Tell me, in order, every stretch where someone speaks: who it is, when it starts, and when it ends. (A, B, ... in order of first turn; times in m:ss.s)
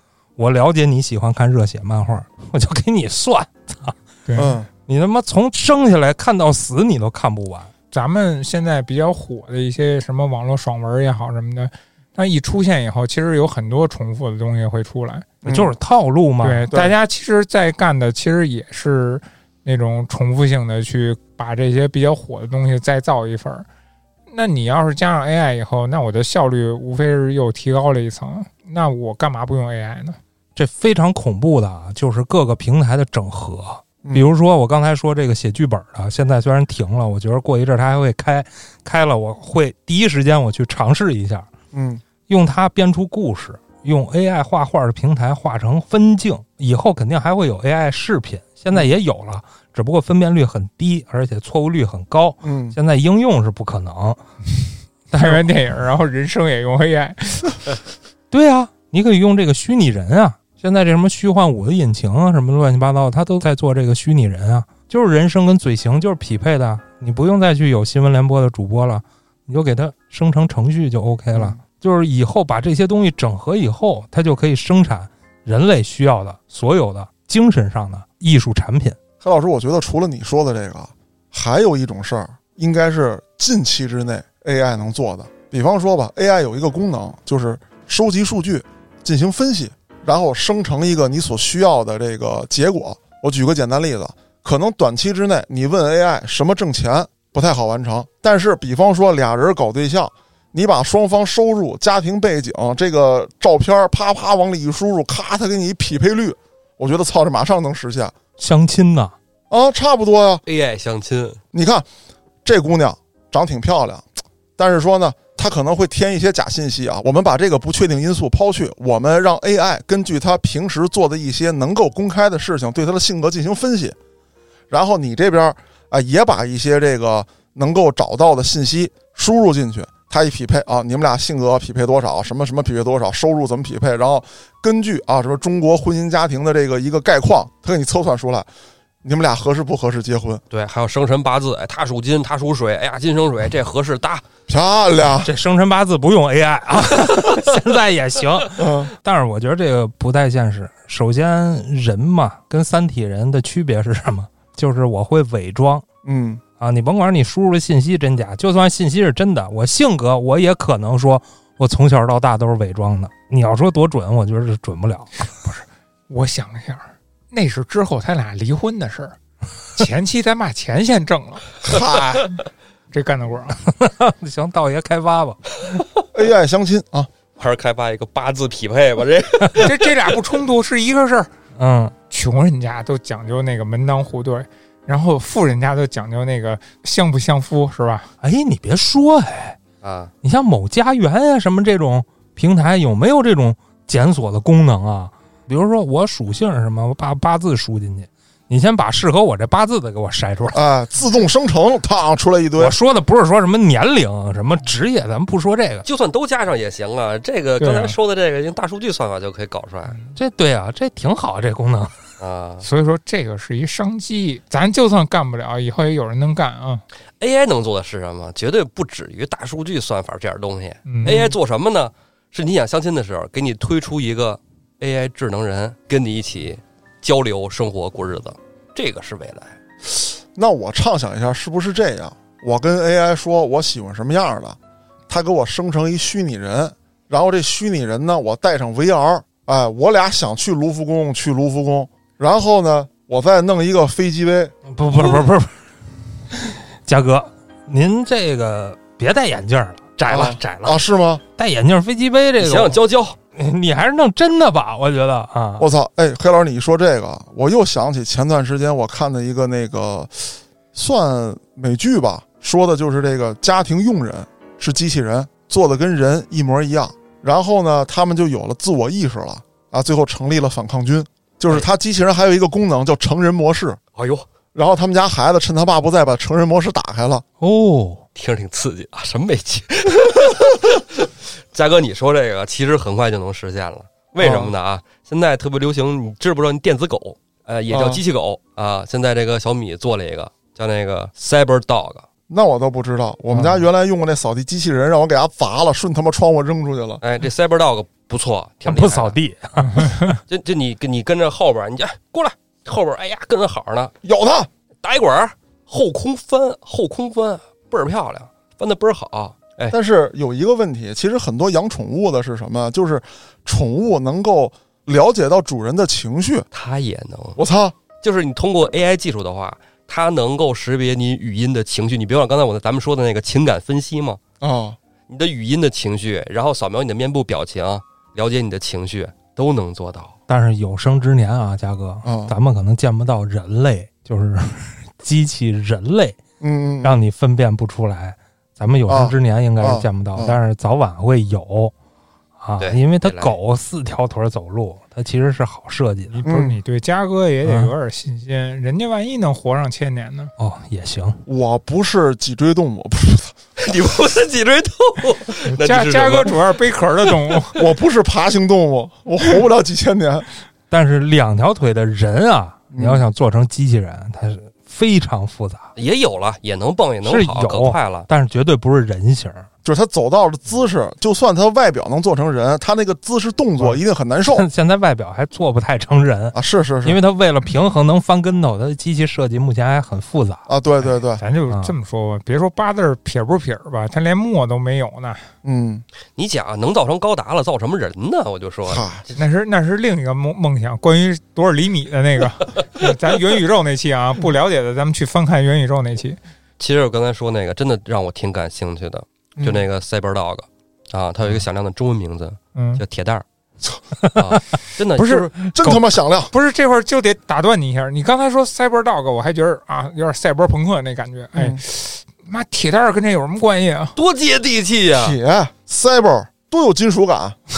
0:00.4-0:04.0 A
0:04.2-0:04.6 B
0:04.4-0:04.7 C
0:04.9-0:07.7 A
0:07.9-0:15.3 B
0:15.4-0:15.7 C
0:15.4-0:16.7 A
0:16.4-0:23.6 B
0:24.3-0:30.2 B
0:30.6-0:41.5 A
0:34.0-0:34.3 C
0:41.7-0:42.0 C
0:42.3-0:54.2 A
0:52.4-0:52.8 C
0:55.1-0:57.7 B
0:55.1-0:55.4 A
0:58.3-1:19.0 A
1:11.3-1:11.6 C
1:19.2-1:48.1 C
1:48.4-1:49.1 A
1:49.5-1:50.4 C
1:50.4-1:51.4 D
1:51.5-1:51.8 C
1:52.4-2:04.0 C
2:04.7-2:18.5 C
2:19.0-2:20.4 C
2:20.5-2:24.2 D
2:24.5-2:25.3 C
2:25.2-2:35.8 A
2:28.6-2:28.9 C
2:36.0-2:36.4 C
2:36.6-2:45.3 A
2:45.4-2:49.2 B
2:49.7-2:51.4 B
2:51.6-2:52.3 C
2:52.9-2:53.6 B
2:53.7-2:55.5 A
2:56.1-2:57.1 C
2:57.4-2:59.8 D
2:59.6-3:01.3 B
3:01.6-3:01.9 A
3:02.1-3:08.1 B
3:08.2-3:09.6 A
3:09.8-3:10.1 D
3:10.2-3:20.6 A
3:20.5-3:22.8 C
3:22.6-3:25.8 A
3:25.8-3:29.9 D
3:27.6-3:28.0 B
3:30.2-3:31.9 A
3:32.2-3:32.6 D
3:32.6-3:36.8 B
3:37.2-3:49.5 D
3:40.9-3:41.2 B
3:50.3-3:54.6 C
3:55.1-4:05.2 C
4:04.7-4:05.5 A
4:06.3-4:10.8 A
4:10.1-4:11.2 C
4:11.4-4:12.8 A
4:12.4-4:13.2 D
4:13.3-4:15.7 A
4:15.6-4:33.8 C
4:34.0-4:34.2 D
4:34.5-4:37.2 C
4:37.4-4:38.0 A
4:38.1-4:52.0 D
4:44.2-4:44.5 C
4:47.7-4:48.0 C
4:52.3-4:57.0 C
4:57.0-4:59.2 D
4:58.6-5:00.2 A
4:59.6-5:00.2 B
5:00.3-5:03.9 D
5:04.0-5:04.5 C
5:04.8-5:09.8 D
5:09.7-5:16.5 C
5:16.5-5:17.4 D
5:17.4-5:17.8 C
5:18.0-5:24.2 D
5:24.4-5:24.8 C
5:25.1-5:30.2 D
5:30.3-5:36.2 A
5:32.0-5:32.3 C
5:36.4-5:37.0 C
5:36.8-5:41.7 A
5:38.9-5:40.4 C
5:42.4-5:46.2 A
5:42.6-5:43.4 D
5:46.1-5:50.3 B
5:46.2-5:46.6 C
5:47.4-5:47.7 A
5:50.4-5:51.2 A
5:51.2-5:53.3 C
5:53.6-5:56.4 D
5:55.5-5:57.6 B
5:57.5-6:00.2 C
6:00.7-6:05.7 A
6:02.7-6:03.0 C
6:05.8-6:08.1 D
6:07.0-6:09.5 A
6:09.6-6:14.5 C
6:14.3-6:20.4 A
6:16.3-6:17.0 C
6:20.5-6:21.2 C
6:20.8-6:25.3 B
6:25.4-6:25.8 C
6:26.2-6:29.2 D
6:28.7-6:29.0 C
6:29.2-6:36.2 B
6:36.6-6:43.2 D
6:39.4-6:39.6 C
6:42.5-6:42.8 B
6:44.1-6:45.4 D
6:45.0-6:45.8 B
6:45.4-6:46.3 C
6:46.3-6:53.9 B
6:51.3-6:51.6 C
6:54.0-6:55.2 D
6:54.9-6:57.4 C